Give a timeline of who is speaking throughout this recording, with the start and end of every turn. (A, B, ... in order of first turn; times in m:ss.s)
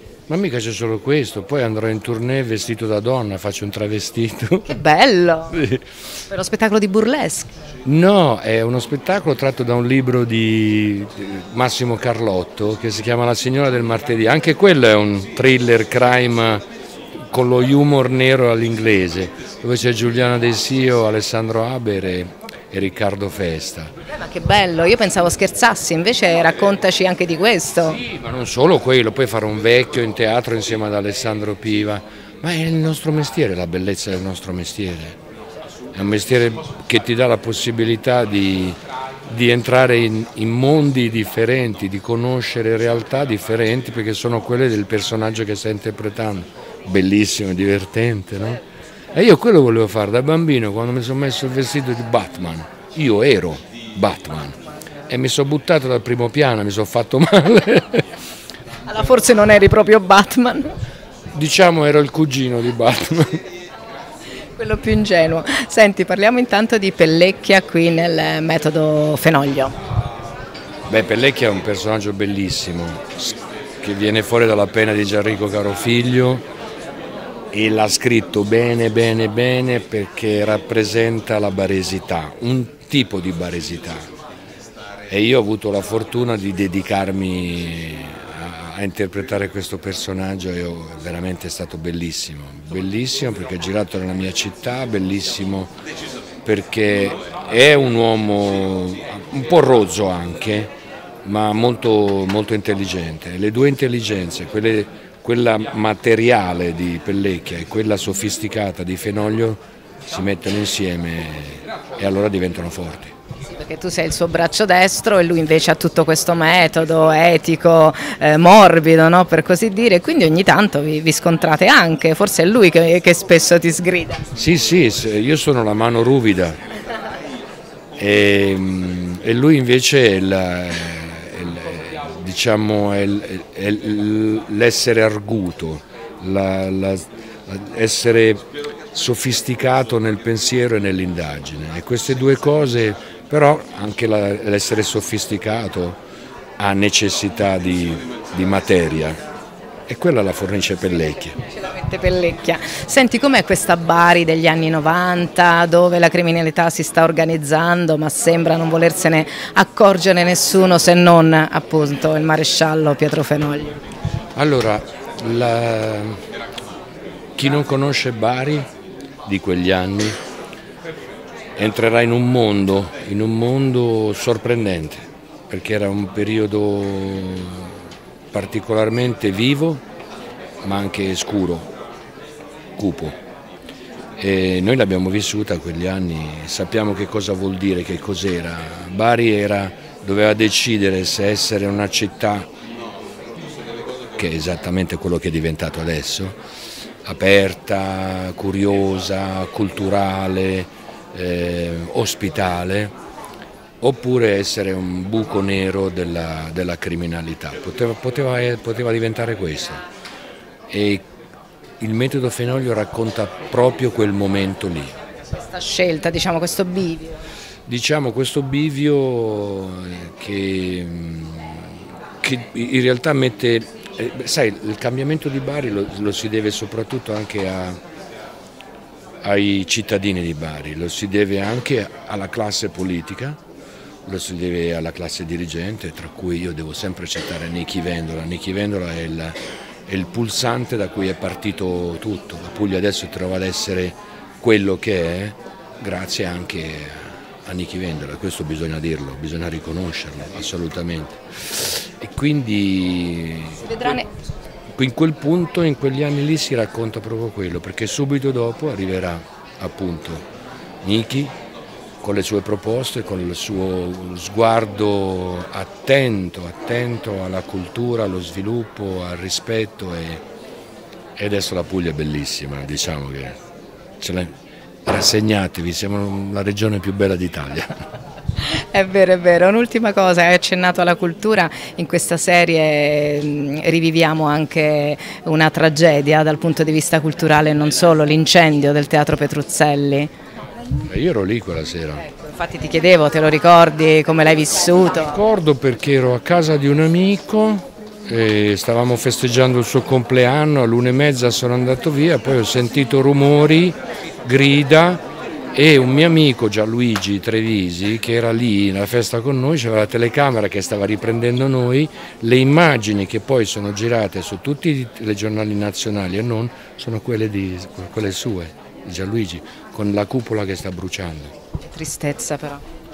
0:00.3-0:04.7 A
0:04.6-0:05.7 B
0:05.5-0:05.8 A
0:06.3-0:07.5 B
0:07.8-0:16.6 A
0:17.3-0:23.9 A
0:24.1-0:28.0 B
0:27.9-0:35.2 A
0:35.9-0:48.6 A
0:49.1-0:54.6 A
0:55.1-0:58.0 A
0:58.8-1:00.7 B
1:01.3-1:03.4 A
1:04.6-1:09.8 B
1:10.9-1:16.4 A
1:17.5-1:24.0 A
1:25.1-1:35.7 A
1:36.4-1:40.7 A
1:41.2-1:53.1 A
1:53.5-2:04.2 B
2:04.3-2:06.6 A
2:08.0-2:26.0 A
2:26.6-2:29.2 A
2:29.9-2:31.3 A
2:31.5-2:43.8 B
2:44.4-2:46.2 A
2:47.4-2:48.7 A
2:49.2-2:50.2 A
2:51.6-2:59.8 A
3:00.6-3:01.7 A
3:02.8-3:03.2 A
3:04.2-3:12.5 A
3:14.2-3:16.4 A
3:17.0-3:22.9 A
3:23.8-3:29.8 A
3:30.7-3:31.0 A
3:31.8-3:34.9 A
3:35.3-3:37.2 B
3:37.6-3:47.8 A
3:49.2-3:53.4 A
3:54.0-3:59.3 A
3:59.9-4:14.0 A
4:13.6-4:14.0 B
4:14.8-4:20.2 A
4:20.8-4:21.3 A
4:22.0-4:30.2 A
4:31.2-4:33.4 A
4:34.0-4:34.3 A
4:34.8-4:37.7 A
4:38.4-4:50.1 B
4:50.8-4:52.0 A
4:52.0-4:55.2 B
4:54.9-5:05.0 A
5:05.5-5:21.3 A
5:21.7-5:22.6 B